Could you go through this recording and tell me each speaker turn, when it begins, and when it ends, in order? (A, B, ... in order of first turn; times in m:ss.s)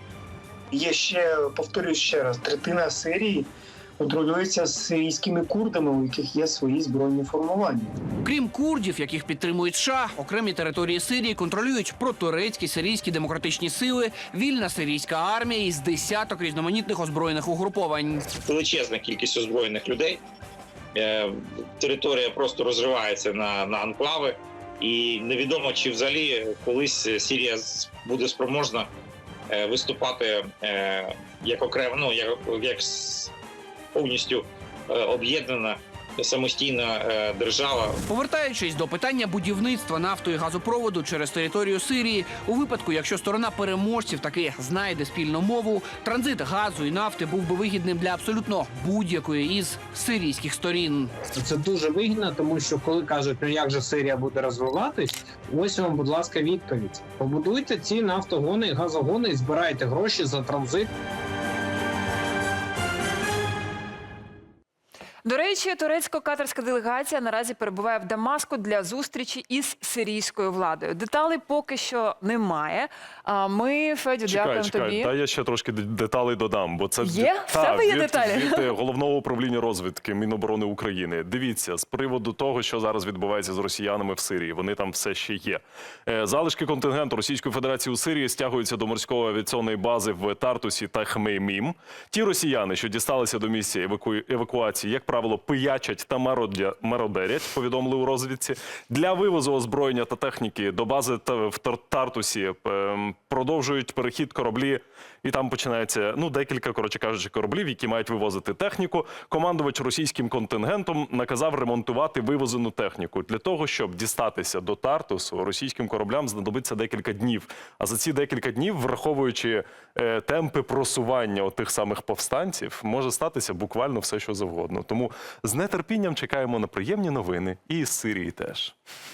0:00.7-0:07.9 A
0:08.2-0:18.2 B
0:18.4-0:20.2 C
0:20.9-0:28.9 C
0:29.5-0:33.3 C
0:33.9-0:38.0 C
0:38.1-0:51.1 B
0:51.4-1:00.9 D
1:05.2-1:15.1 E
1:14.3-2:08.7 F
1:17.0-1:18.7 E